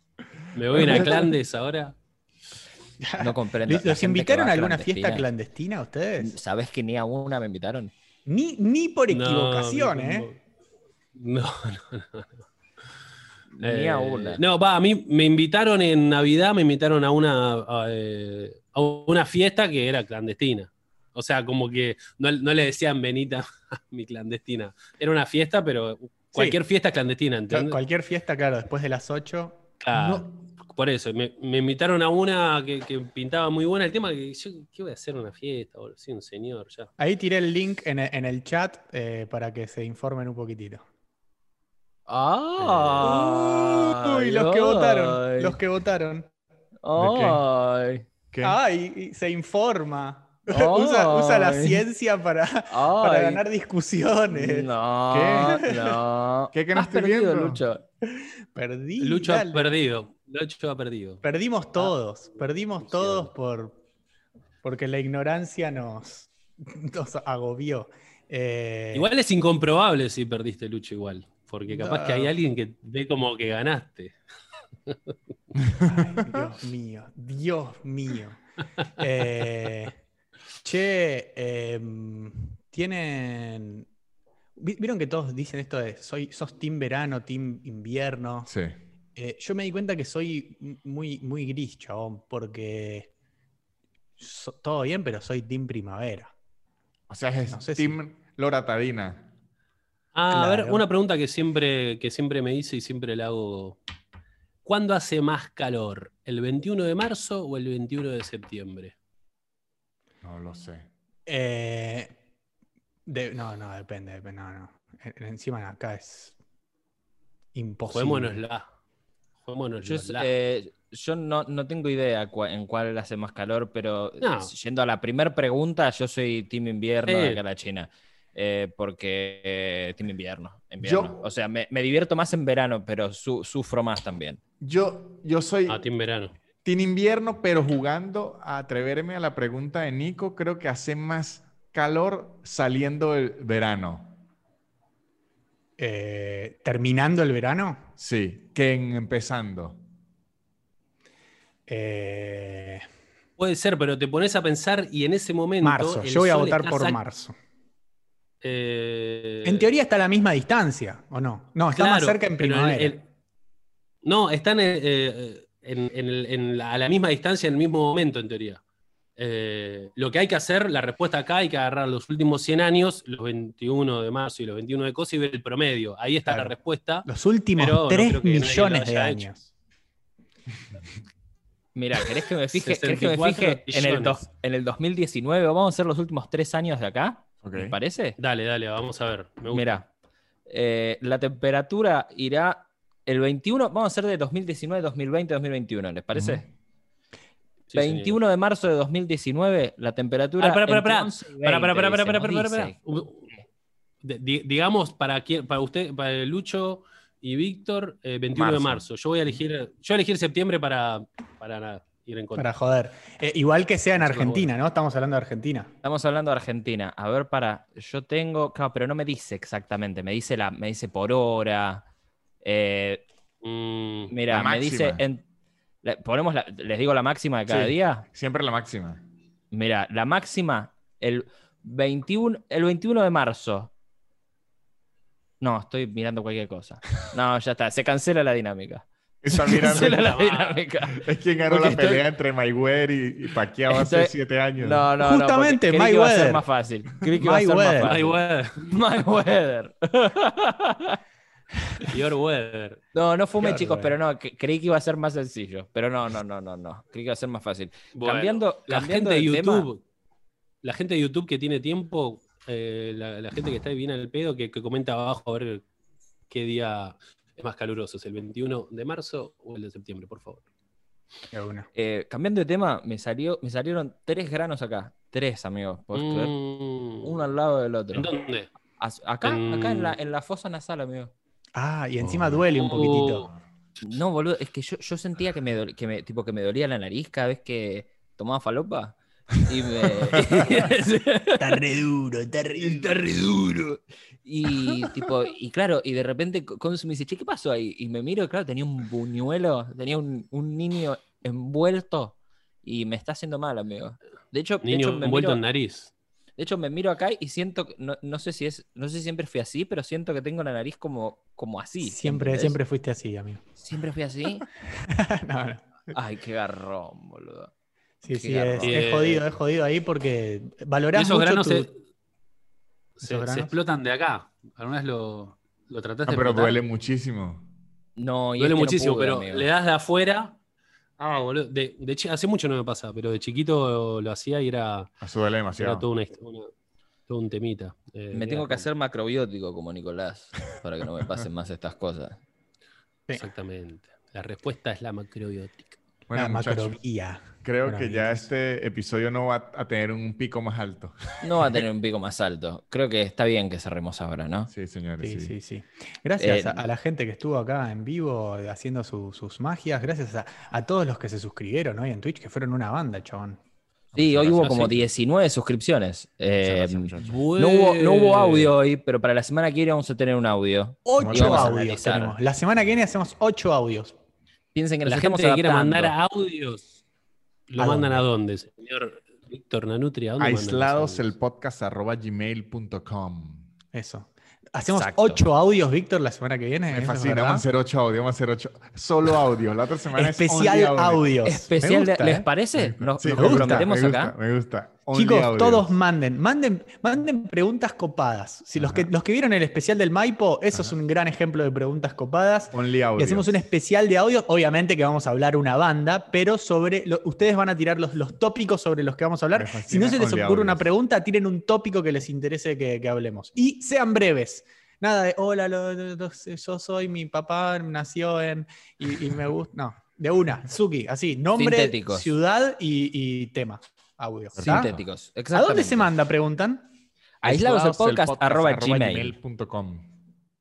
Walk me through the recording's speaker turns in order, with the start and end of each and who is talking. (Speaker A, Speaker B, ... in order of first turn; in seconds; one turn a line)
Speaker A: 0.5-1.9
Speaker B: 0.7-1.3
Speaker C: 3.0-6.3
Speaker D: 3.2-5.2
Speaker D: 6.2-7.9
Speaker C: 8.2-10.3
Speaker A: 9.1-10.4
Speaker A: 11.1-12.4
Speaker D: 13.6-14.4
Speaker A: 13.6-27.8
Speaker C: 27.5-29.6
Speaker A: 29.8-36.9
Speaker B: 29.9-30.3
Speaker C: 37.0-40.8
Speaker D: 42.1-45.6
Speaker C: 42.6-46.3
Speaker D: 46.8-48.0
Speaker B: 47.0-47.4
Speaker B: 48.3-48.6
Speaker C: 48.4-56.0
Speaker D: 50.5-51.8
Speaker D: 52.7-53.4
Speaker D: 54.3-57.8
Speaker B: 56.5-57.6
Speaker C: 58.0-59.7
Speaker A: 59.0-61.2
Speaker C: 61.2-63.8
Speaker A: 63.0-63.3
Speaker C: 64.6-69.1
Speaker A: 68.9-74.2
Speaker C: 71.7-72.3
Speaker A: 74.9-75.1
Speaker C: 75.8-78.4
Speaker C: 79.0-80.0
Speaker C: 80.6-83.9
Speaker C: 84.6-88.5
Speaker B: 88.5-88.7
Speaker C: 89.2-93.1
Speaker C: 94.2-96.3
Speaker B: 97.1-99.3
Speaker C: 97.5-98.0
Speaker A: 100.1-103.8
Speaker C: 100.3-100.8
Speaker A: 104.6-108.9
Speaker B: 110.2-110.9
Speaker C: 111.2-112.1
Speaker C: 113.0-116.3
Speaker C: 117.5-118.4
Speaker A: 117.9-118.7
Speaker A: 119.5-120.3
Speaker D: 119.8-134.4
Speaker A: 124.2-124.5
Speaker A: 127.1-127.4
Speaker B: 130.8-131.2
Speaker B: 134.6-135.8
Speaker A: 135.7-136.3
Speaker B: 136.6-144.2
Speaker C: 145.8-147.9
Speaker B: 148.0-149.8
Speaker C: 151.7-152.8
Speaker A: 153.4-157.0
Speaker C: 155.6-157.3
Speaker A: 158.4-159.7
Speaker C: 159.4-163.0
Speaker A: 161.7-163.0
Speaker A: 164.0-168.6
Speaker A: 169.2-179.3
Speaker C: 176.2-179.4
Speaker D: 181.7-188.2
Speaker A: 182.5-184.2
Speaker B: 187.4-187.7
Speaker A: 188.2-189.7
Speaker D: 189.5-189.9
Speaker D: 190.5-196.4
Speaker B: 196.1-196.4
Speaker A: 197.7-198.2
Speaker D: 197.7-202.8
Speaker A: 200.4-203.3
Speaker A: 204.0-212.5
Speaker B: 208.3-208.8
Speaker C: 212.3-215.7
Speaker A: 214.0-214.5
Speaker D: 215.8-221.8
Speaker D: 222.4-223.0
Speaker A: 223.4-224.1
Speaker D: 224.1-225.2
Speaker B: 224.3-225.0
Speaker D: 225.8-228.1
Speaker B: 227.5-229.0
Speaker D: 229.5-233.7
Speaker D: 235.4-242.1
Speaker B: 239.2-240.1
Speaker A: 239.7-240.6
Speaker B: 240.8-244.9
Speaker D: 243.7-251.0
Speaker C: 245.0-246.4
Speaker C: 247.1-247.9
Speaker A: 247.8-248.6
Speaker A: 251.9-252.8
Speaker D: 252.9-259.7
Speaker C: 253.4-253.9
Speaker A: 257.9-259.8
Speaker A: 260.6-265.6
Speaker A: 266.3-270.4
Speaker C: 271.3-271.7
Speaker D: 271.7-276.3
Speaker A: 275.9-277.1
Speaker D: 277.0-278.1
Speaker A: 277.9-278.5
Speaker D: 278.8-281.1
Speaker A: 279.2-279.9
Speaker C: 281.5-283.3
Speaker B: 282.0-282.4
Speaker A: 282.5-283.3
Speaker D: 283.8-291.6
Speaker B: 290.1-290.4
Speaker C: 291.4-292.9
Speaker D: 292.6-305.4
Speaker A: 304.6-305.9
Speaker D: 306.4-312.6
Speaker C: 311.8-313.4
Speaker D: 313.6-314.4
Speaker C: 314.8-315.9
Speaker D: 315.9-317.5
Speaker C: 318.0-321.7
Speaker D: 318.1-318.8
Speaker A: 318.6-319.2
Speaker A: 320.9-321.8
Speaker A: 323.0-326.6
Speaker C: 323.0-323.5
Speaker B: 326.1-327.5
Speaker D: 328.0-329.5
Speaker A: 328.4-330.4
Speaker A: 331.0-334.9
Speaker B: 335.0-335.9
Speaker A: 335.6-336.5
Speaker A: 337.1-338.7
Speaker D: 338.1-342.2
Speaker A: 343.1-345.8
Speaker B: 346.1-346.8
Speaker C: 346.1-348.2
Speaker B: 347.4-351.6
Speaker D: 351.2-354.5
Speaker B: 354.5-355.3
Speaker C: 355.0-363.4
Speaker D: 356.2-356.6
Speaker B: 363.9-364.8
Speaker D: 363.9-372.1
Speaker B: 366.4-367.2
Speaker A: 367.0-368.5
Speaker C: 370.9-373.9
Speaker B: 371.0-371.5
Speaker D: 374.5-375.9
Speaker A: 374.8-376.8
Speaker A: 377.5-381.1
Speaker C: 377.6-378.0
Speaker B: 380.2-383.5
Speaker C: 383.7-387.4
Speaker D: 384.7-385.2
Speaker B: 386.7-391.0
Speaker C: 389.9-392.3
Speaker D: 391.2-394.1
Speaker B: 392.5-395.8
Speaker C: 393.1-393.7
Speaker C: 394.9-424.7
Speaker B: 398.6-398.9
Speaker B: 402.5-403.4
Speaker B: 409.3-410.6
Speaker D: 421.4-422.1
Speaker B: 424.4-424.8
Speaker D: 424.4-425.9
Speaker C: 425.3-426.6
Speaker B: 427.2-430.0
Speaker D: 427.2-429.1